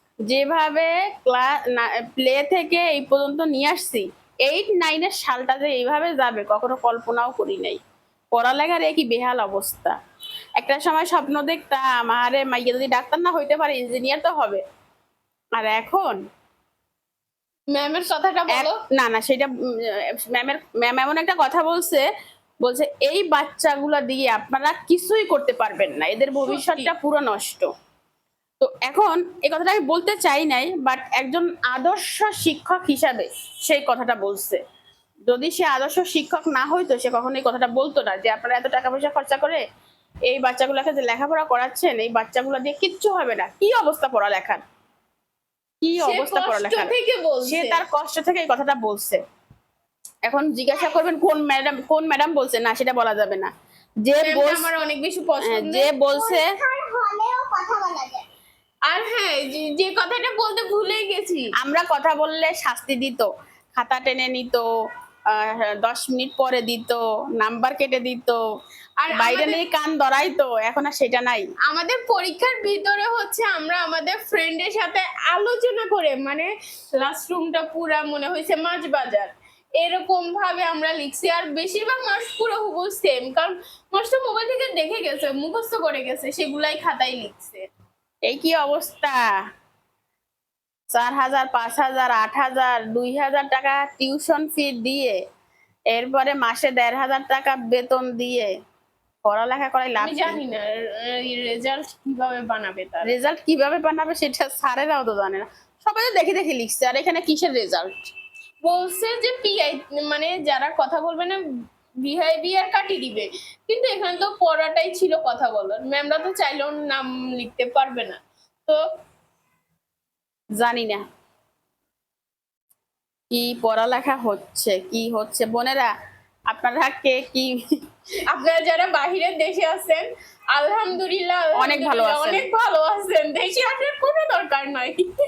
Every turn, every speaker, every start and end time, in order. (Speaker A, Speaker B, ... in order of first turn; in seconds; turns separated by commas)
Speaker A: 0.3-7.8, Speaker A: 8.3-10.0, Speaker A: 10.6-14.6, Speaker A: 15.6-16.2, Speaker B: 17.7-18.8, Speaker A: 18.5-22.1, Speaker A: 22.6-27.7, Speaker B: 26.5-26.9, Speaker A: 28.6-34.6, Speaker A: 35.3-39.6, Speaker A: 40.3-44.6, Speaker A: 45.8-46.9, Speaker B: 46.0-47.8, Speaker A: 47.5-49.2, Speaker A: 50.2-53.5, Speaker A: 54.0-54.7, Speaker B: 54.2-55.9, Speaker A: 55.4-56.6, Speaker C: 56.1-58.2, Speaker B: 58.9-61.5, Speaker A: 61.6-64.7, Speaker A: 65.3-68.4, Speaker B: 69.0-69.6, Speaker A: 69.1-71.5, Speaker B: 71.7-87.7, Speaker A: 88.2-89.2, Speaker A: 90.9-95.2, Speaker A: 95.9-98.5, Speaker A: 99.2-100.4, Speaker B: 100.0-103.1, Speaker A: 103.0-108.1, Speaker B: 108.6-111.4, Speaker B: 112.0-118.8, Speaker A: 120.6-121.0, Speaker A: 123.3-125.9, Speaker A: 126.5-127.8, Speaker B: 128.3-135.2, Speaker A: 131.6-132.4